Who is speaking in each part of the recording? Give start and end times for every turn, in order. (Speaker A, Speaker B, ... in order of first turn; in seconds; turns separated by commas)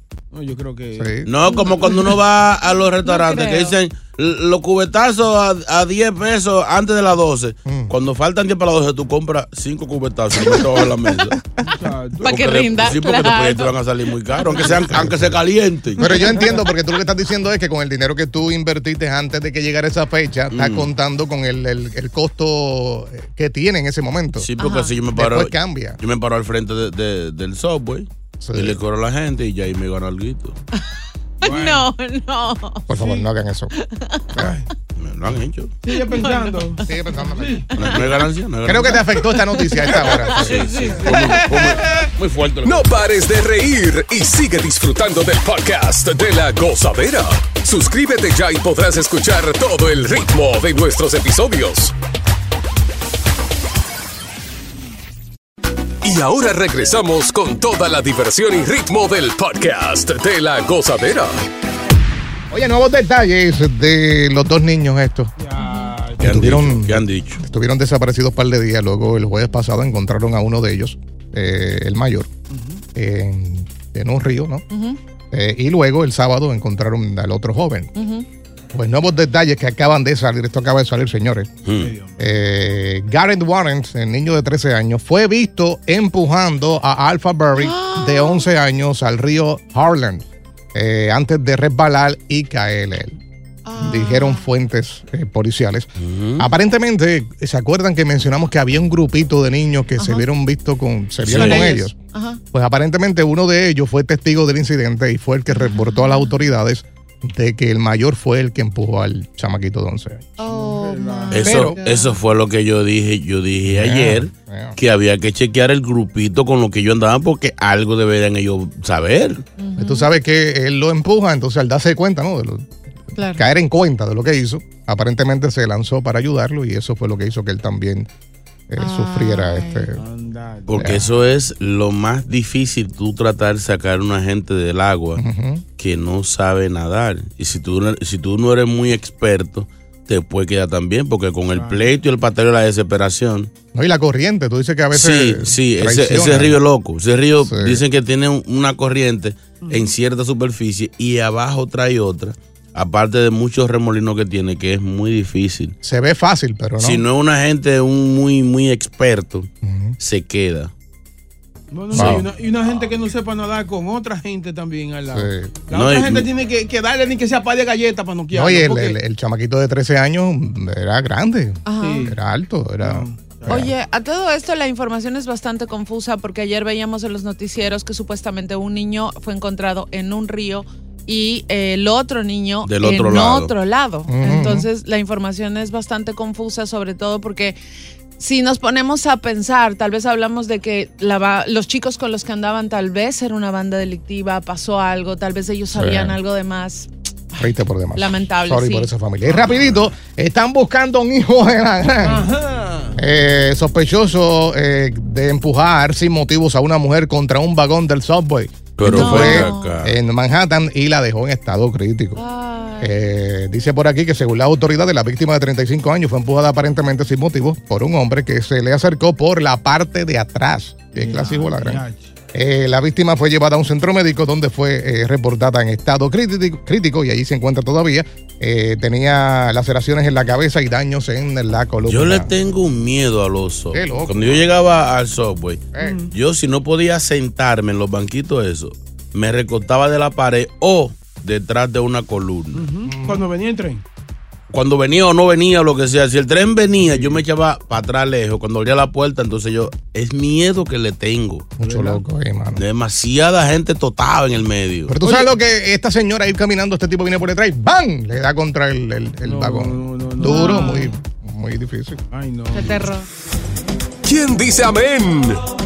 Speaker A: 0.3-1.7, Speaker B: 1.0-1.3, Speaker C: 1.3-11.4, Speaker D: 3.0-3.8, Speaker B: 7.7-7.9, Speaker B: 10.4-10.8, Speaker A: 11.6-12.7, Speaker D: 12.2-13.8, Speaker C: 12.2-16.4, Speaker A: 14.6-15.0, Speaker B: 14.9-15.4, Speaker B: 16.0-24.5, Speaker C: 20.5-20.9, Speaker C: 24.4-30.6, Speaker D: 24.6-24.9, Speaker B: 25.1-26.0, Speaker B: 28.4-28.8, Speaker D: 30.7-32.9, Speaker A: 31.4-31.9, Speaker B: 32.9-33.7, Speaker A: 32.9-33.3, Speaker D: 33.7-34.5, Speaker A: 34.4-34.7, Speaker C: 35.0-35.7, Speaker A: 35.8-37.8, Speaker D: 35.9-37.2, Speaker B: 36.9-37.6, Speaker D: 37.7-38.1, Speaker C: 37.8-39.2, Speaker B: 38.6-40.7, Speaker D: 39.1-41.3, Speaker C: 40.2-42.9, Speaker A: 41.0-41.3, Speaker E: 42.6-51.9, Speaker E: 56.0-61.5, Speaker B: 62.5-65.3, Speaker A: 65.4-66.4, Speaker D: 65.6-66.0, Speaker C: 66.2-67.4, Speaker B: 66.2-72.3, Speaker A: 72.5-72.8, Speaker B: 72.9-74.6, Speaker D: 74.7-75.0, Speaker B: 75.3-77.9, Speaker D: 77.9-78.2, Speaker B: 78.7-81.5, Speaker C: 81.6-81.9, Speaker A: 81.8-82.2, Speaker B: 82.2-93.2, Speaker D: 87.6-88.5, Speaker D: 93.7-94.5, Speaker B: 93.8-101.9, Speaker C: 96.0-96.5, Speaker D: 100.0-100.2, Speaker C: 101.2-101.7, Speaker D: 101.3-102.4, Speaker B: 102.5-110.4, Speaker D: 105.5-106.3, Speaker D: 110.4-112.2, Speaker A: 110.4-111.6, Speaker C: 111.3-119.4, Speaker B: 111.4-111.8, Speaker B: 113.7-114.8, Speaker D: 119.6-120.1, Speaker B: 119.8-122.7, Speaker D: 123.2-123.5, Speaker B: 123.3-128.1, Speaker B: 128.7-130.0, Speaker D: 128.8-129.9, Speaker A: 129.9-130.9, Speaker C: 130.7-135.2, Speaker B: 130.8-131.1, Speaker B: 135.2-135.6, Speaker C: 135.8-143.5, Speaker A: 141.5-141.9, Speaker B: 143.7-146.6, Speaker C: 144.9-155.7, Speaker B: 147.4-147.8, Speaker A: 149.6-149.9, Speaker B: 155.8-157.0, Speaker C: 156.8-159.5, Speaker B: 159.6-160.0, Speaker C: 160.0-160.7, Speaker A: 161.7-168.9, Speaker B: 161.9-162.3, Speaker C: 161.9-162.2, Speaker B: 165.1-165.5, Speaker C: 165.7-166.3, Speaker B: 168.3-173.7, Speaker D: 171.7-172.1, Speaker A: 171.8-172.2, Speaker A: 172.8-173.7, Speaker D: 173.4-187.6, Speaker C: 182.6-183.5, Speaker B: 184.1-184.7, Speaker D: 188.2-198.9, Speaker B: 195.7-196.2, Speaker B: 197.4-202.3, Speaker A: 199.3-199.6, Speaker A: 202.0-203.0, Speaker B: 202.9-212.2, Speaker C: 208.8-209.9, Speaker D: 208.9-209.8, Speaker D: 212.2-212.9, Speaker B: 212.8-232.3, Speaker A: 220.9-222.1, Speaker C: 231.9-242.7, Speaker B: 233.7-234.5, Speaker B: 235.8-236.0, Speaker A: 235.8-236.1, Speaker A: 242.6-243.8, Speaker B: 242.9-243.2, Speaker C: 244.5-251.5, Speaker B: 251.6-252.6, Speaker A: 251.6-252.0, Speaker C: 252.6-254.9, Speaker B: 254.9-262.0, Speaker A: 255.0-255.3, Speaker A: 259.2-260.9, Speaker D: 260.2-260.9, Speaker A: 262.1-262.9, Speaker D: 262.5-263.1, Speaker E: 264.1-265.4